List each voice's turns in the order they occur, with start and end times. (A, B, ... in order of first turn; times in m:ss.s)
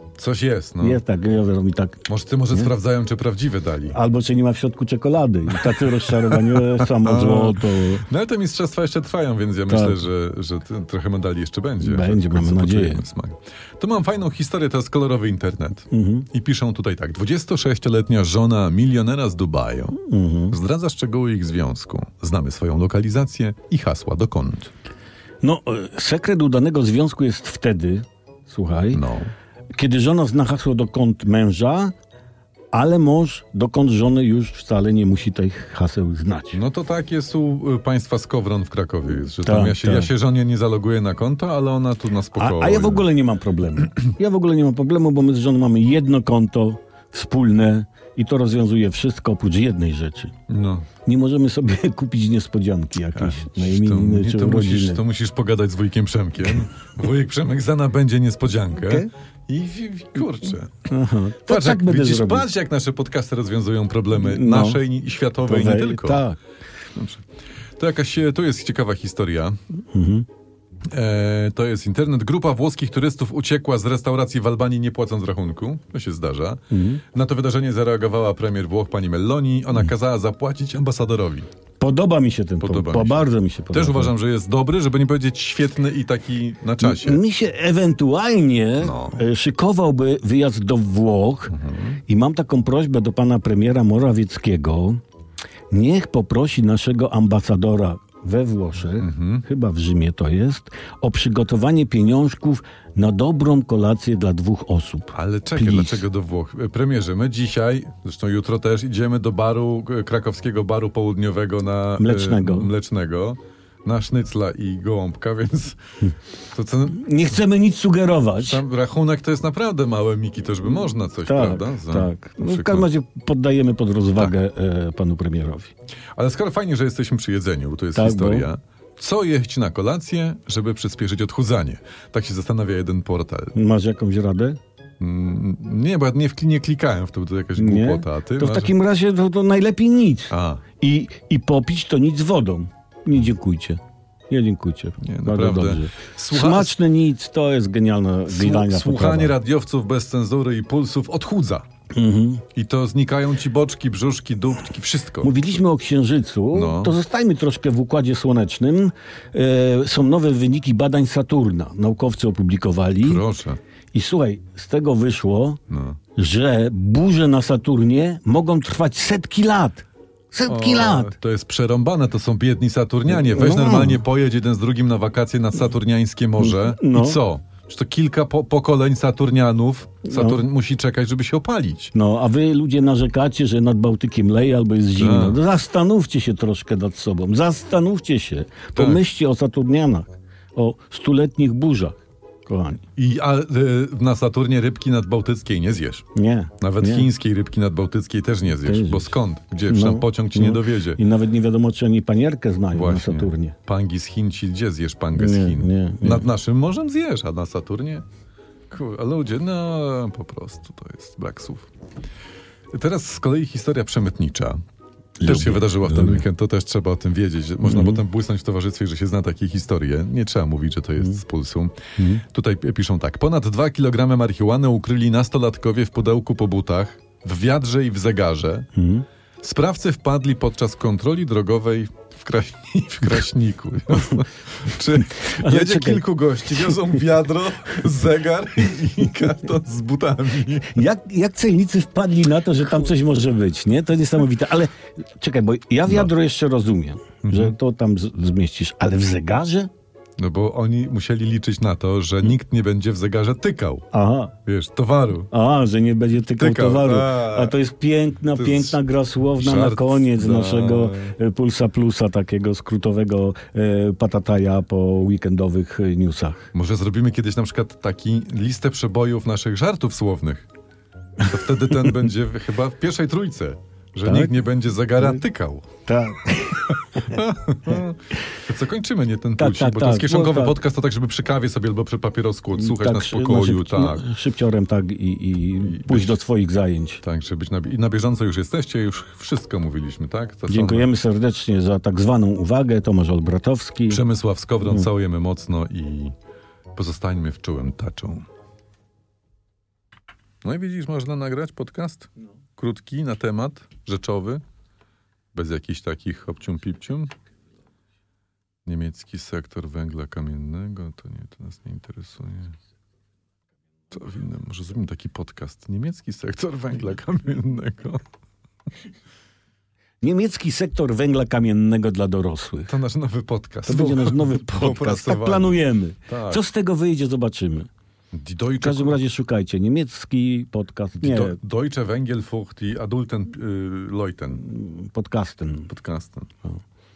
0:00.2-0:01.0 A
0:00.8-0:02.7 B
0:02.1-0:04.0 A
0:03.9-0:08.0 B
0:05.6-0:24.7 A
0:09.7-0:10.0 B
0:11.8-0:13.0 B
0:15.9-0:16.3 B
0:20.0-0:20.6 B
0:25.4-0:29.0 B
0:28.9-0:29.3 A
0:29.8-0:31.9 B
0:32.7-0:36.6 B
0:36.5-0:43.1 A
0:39.4-0:40.1 B
0:42.4-0:50.3 B
0:50.5-0:50.9 A
0:51.1-0:55.0 B
0:53.1-1:00.9 A
0:58.8-0:59.1 B
1:00.9-1:02.5 B
1:01.5-1:06.2 A
1:04.2-1:04.8 B
1:05.5-1:06.4 B
1:07.0-1:07.2 A
1:07.8-1:09.6 A
1:09.9-1:10.2 B
1:10.9-1:21.5 A
1:16.7-1:17.0 B
1:21.8-1:24.1 B
1:22.6-1:27.2 A
1:26.8-1:31.5 B
1:28.8-1:29.2 A
1:31.5-1:32.0 A
1:32.1-1:35.0 B
1:35.7-1:46.0 B
1:39.0-1:39.4 A
1:45.1-1:55.8 A
1:52.0-1:52.7 B
1:56.5-1:57.1 A
1:56.9-1:58.6 B
1:58.4-2:02.9 A
2:01.2-2:05.7 B
2:06.2-2:13.5 A
2:08.0-2:08.5 B
2:13.6-2:14.6 B
2:15.0-2:18.7 A
2:17.6-2:29.4 B
2:20.3-2:20.6 A
2:25.0-2:26.8 A
2:28.3-2:31.6 A
2:31.9-2:32.4 B
2:32.6-2:35.4 A
2:35.2-2:43.2 B
2:36.5-2:37.0 A
2:43.0-2:43.6 A
2:43.9-2:45.6 B
2:45.7-2:46.0 A
2:46.2-2:51.1 B
2:50.5-3:01.9 A
2:53.1-2:54.0 B
2:56.4-2:57.2 B
3:00.1-3:00.4 B
3:01.9-3:12.8 B
3:05.0-3:05.4 A
3:08.8-3:09.0 A
3:13.0-3:16.0 A
3:16.2-3:17.1 B
3:16.6-3:21.0 A
3:18.5-3:19.1 B
3:19.7-3:23.6 B
3:22.7-3:28.0 A
3:25.2-3:26.3 B
3:28.7-3:31.7 A
3:32.7-3:34.6 A
3:35.2-3:36.2 B
3:35.2-3:48.7 A
3:37.6-3:38.0 B
3:42.0-3:42.2 B
3:48.8-3:49.1 B
3:49.4-4:00.8 A
3:55.0-3:56.8 B
4:00.7-4:09.7 B
4:07.2-4:07.5 A
4:10.2-4:13.9 A
4:13.9-4:14.4 B
4:14.4-4:15.3 A
4:15.3-4:26.5 B
4:16.4-4:17.6 A
4:18.3-4:18.8 A
4:19.4-4:21.1 A
4:26.5-4:30.5 A
4:31.2-4:35.7 A
4:34.0-4:34.3 B
4:35.9-4:37.8 B
4:37.0-4:44.1 A
4:39.4-4:40.6 B
4:42.5-4:47.0 B
4:45.6-4:46.1 A
4:47.0-4:50.9 A
4:50.5-4:54.0 B
4:53.9-4:56.1 A
4:56.8-4:58.3 A
5:00.4-5:04.4 A
5:05.3-5:07.1 A
5:08.6-5:12.6 A
5:13.9-5:18.0 A
5:20.0-5:22.7 B
5:22.7-5:26.4 A
5:23.6-5:27.7 B
5:28.1-5:29.0 A
5:28.6-5:31.4 B
5:31.0-5:34.5 A
5:34.4-5:35.7 B
5:35.7-5:36.3 A